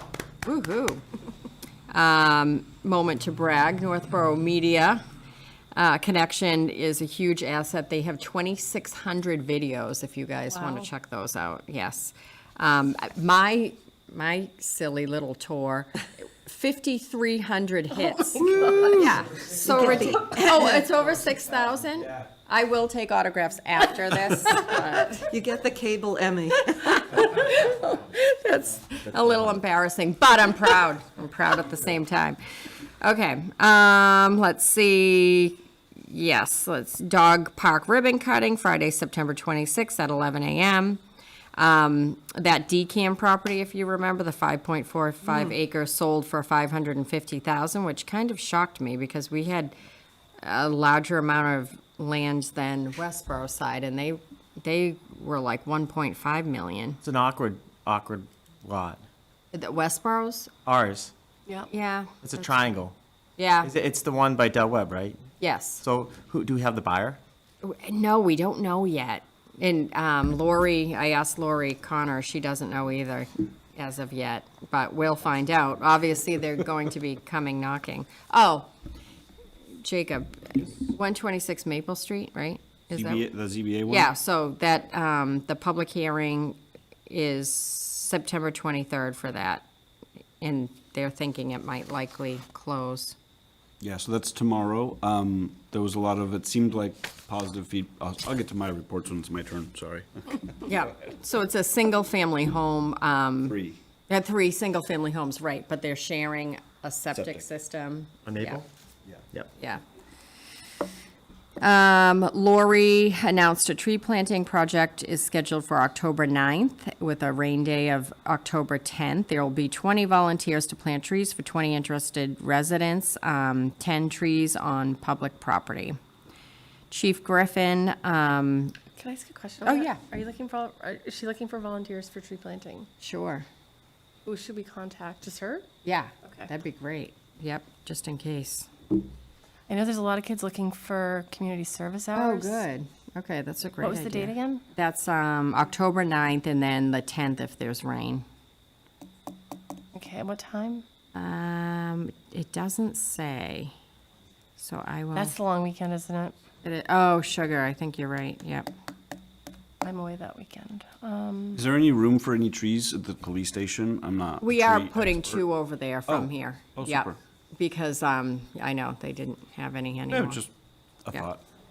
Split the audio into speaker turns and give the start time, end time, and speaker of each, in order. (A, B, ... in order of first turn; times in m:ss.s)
0:00.4-0:01.0 A
0:01.9-0:05.0 A
0:05.8-0:25.3 A
0:18.9-0:20.9 B
0:25.3-0:27.1 B
0:26.7-0:32.4 A
0:33.0-0:41.0 A
0:41.6-0:49.8 A
0:50.4-0:57.0 A
0:57.0-0:59.0 C
0:59.5-1:00.5 A
1:00.7-1:01.1 C
1:01.7-1:02.3 A
1:02.2-1:02.9 C
1:03.4-1:03.7 A
1:03.6-1:05.2 C
1:05.4-1:05.8 A
1:05.8-1:07.2 C
1:07.6-1:18.7 A
1:19.8-1:23.3 A
1:23.0-1:24.1 D
1:23.9-1:29.7 A
1:30.4-1:33.2 A
1:33.8-1:40.4 D
1:40.6-1:48.6 A
1:43.5-1:43.8 D
1:48.3-1:48.6 C
1:49.6-1:49.8 A
1:51.6-2:06.0 A
2:06.9-2:08.8 A
2:09.0-2:12.9 E
2:09.6-2:10.0 A
2:13.0-2:13.5 A
2:14.3-2:15.7 E
2:15.8-2:18.7 A
2:19.7-2:22.6 E
2:22.1-2:28.2 A
2:23.8-2:24.6 E
2:30.0-2:30.8 E
2:31.1-2:33.7 A
2:34.6-2:35.4 A
2:35.1-2:36.4 E
2:36.6-2:38.7 A
2:39.8-2:41.6 E
2:41.6-2:45.4 D
2:44.4-2:50.4 A
2:46.1-2:47.2 D
2:50.1-2:50.5 D
2:51.1-2:51.4 D